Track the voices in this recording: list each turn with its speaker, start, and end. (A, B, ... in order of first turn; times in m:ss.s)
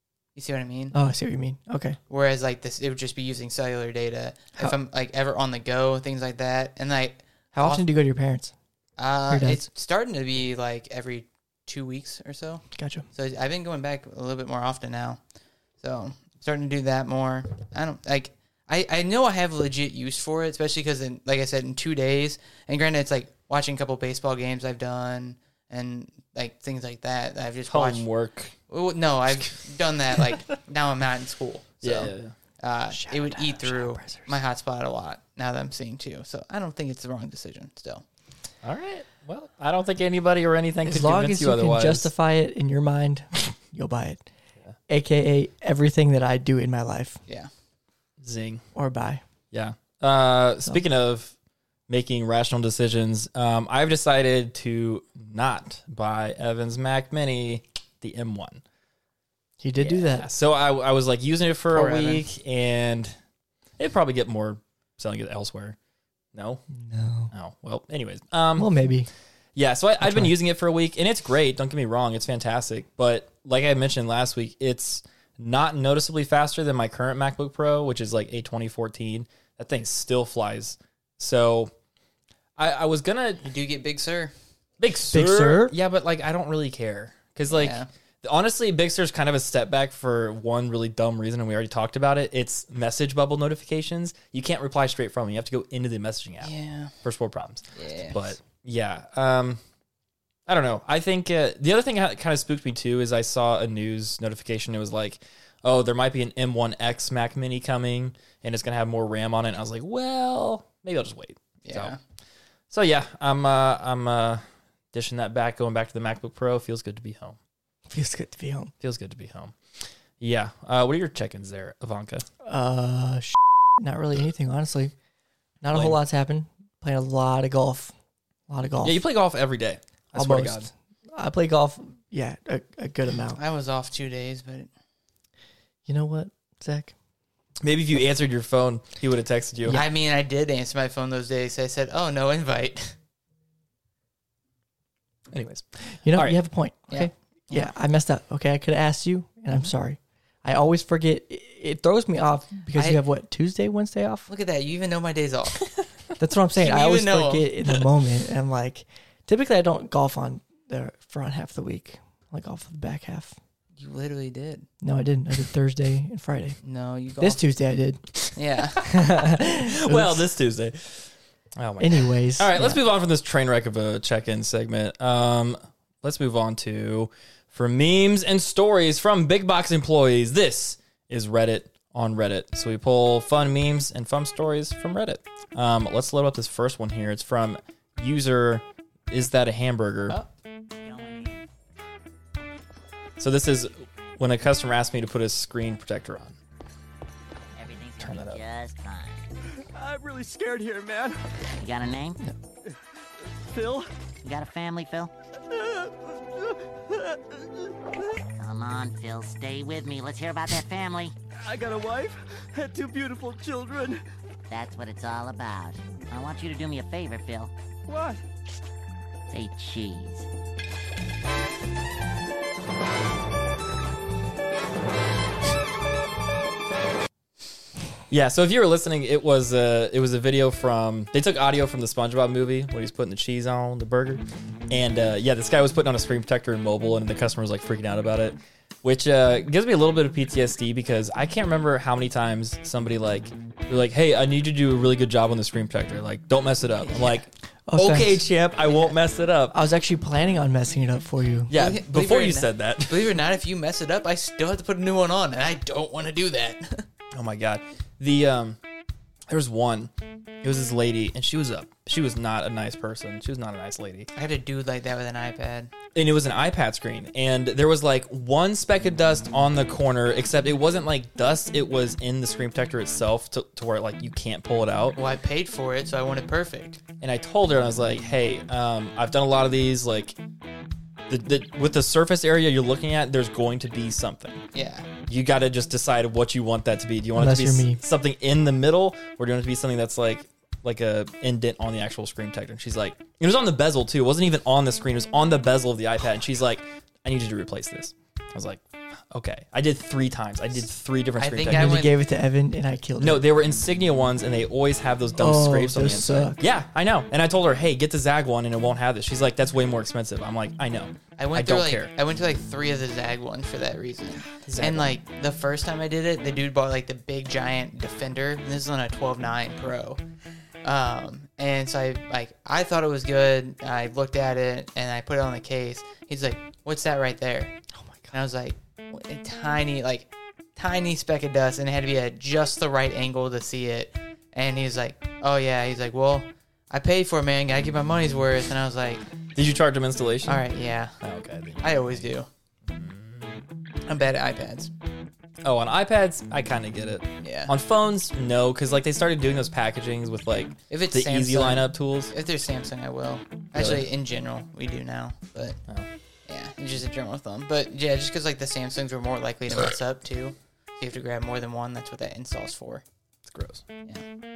0:00.4-0:01.0 A
0:00.9-0:02.0 B
0:02.1-0:07.8 A
0:07.6-0:08.5 B
0:09.0-0:15.2 A
0:09.3-0:09.7 B
0:12.7-0:13.1 B
0:15.8-0:28.1 A
0:27.7-0:28.5 C
0:28.7-0:38.0 A
0:31.8-0:32.4 C
0:32.9-0:34.4 B
0:38.6-0:42.1 C
0:40.8-0:44.2 B
0:44.9-0:47.2 B
0:48.2-0:48.6 C
0:48.8-0:49.2 B
0:49.5-0:51.3 C
0:51.9-0:58.6 C
0:59.6-1:00.3 B
0:59.8-1:03.2 C
1:01.7-1:02.2 A
1:03.8-1:05.8 C
1:06.3-1:06.6 C
1:06.8-1:07.3 B
1:07.3-1:08.7 C
1:08.6-1:09.1 B
1:09.6-1:21.7 C
1:10.0-1:10.3 B
1:22.6-1:23.4 C
1:23.4-1:24.3 A
1:24.8-1:36.5 C
1:25.1-1:25.8 B
1:27.5-1:27.9 A
1:36.4-1:36.9 A
1:37.0-1:39.6 C
1:37.8-1:38.2 A
1:40.5-1:52.0 C
1:51.7-1:52.0 A
1:52.7-1:57.4 C
1:57.9-1:58.7 B
1:58.8-2:02.3 C
2:02.4-2:04.9 B
2:05.6-2:07.9 B
2:05.7-2:06.0 C
2:08.5-2:09.0 B
2:08.8-2:10.7 C
2:10.2-2:13.4 B
2:13.4-2:14.7 A
2:15.9-2:16.9 B
2:17.6-2:19.8 C
2:19.7-2:22.9 A
2:25.3-2:26.4 C
2:26.0-2:34.3 B
2:26.9-2:27.7 A
2:32.8-2:33.0 A
2:34.3-2:35.7 A
2:36.2-2:43.4 B
2:36.6-2:37.5 A
2:43.8-2:44.7 A
2:44.8-2:46.6 B
2:46.6-2:47.4 A
2:47.2-2:48.0 B
2:48.4-2:48.9 A
2:48.8-2:50.3 B
2:49.6-3:10.2 C
2:51.8-2:52.8 B
3:10.8-3:11.4 D
3:13.2-3:16.4 C
3:17.6-3:19.3 D
3:18.0-3:18.4 C
3:20.0-3:20.9 E
3:21.6-3:22.2 D
3:24.2-3:25.1 D
3:28.4-3:31.2 D
3:31.6-3:33.2 E
3:34.5-3:37.5 D
3:39.3-3:40.3 D
3:48.1-4:09.6 C
4:06.9-4:07.2 A
4:07.7-4:08.2 B
4:09.5-4:11.6 B
4:11.5-4:13.1 C
4:11.5-4:16.8 A
4:17.1-4:18.6 C
4:19.3-4:19.9 C
4:20.4-4:24.1 C
4:24.2-4:25.7 A
4:26.0-4:35.0 C
4:35.0-4:36.8 A
4:37.0-4:40.2 C
4:41.1-4:44.4 C
4:44.5-4:44.9 A
4:45.1-5:01.8 C
4:47.2-4:47.8 B
5:01.2-5:02.0 A
5:01.5-5:03.3 B
5:03.0-5:11.9 C
5:05.2-5:06.4 B
5:11.2-5:20.0 A
5:14.4-5:15.0 C
5:20.6-5:27.6 A
5:27.8-5:28.1 B
5:28.1-5:39.0 A
5:39.4-5:40.4 C
5:40.3-5:41.0 A
5:41.0-5:42.0 C
5:41.6-5:42.3 A
5:42.7-5:43.4 C
5:43.9-5:44.7 A
5:45.4-5:52.1 C
5:47.2-5:47.5 A
5:50.7-5:55.6 A
5:53.6-5:53.9 C
5:56.3-6:02.8 A
6:03.3-6:03.6 C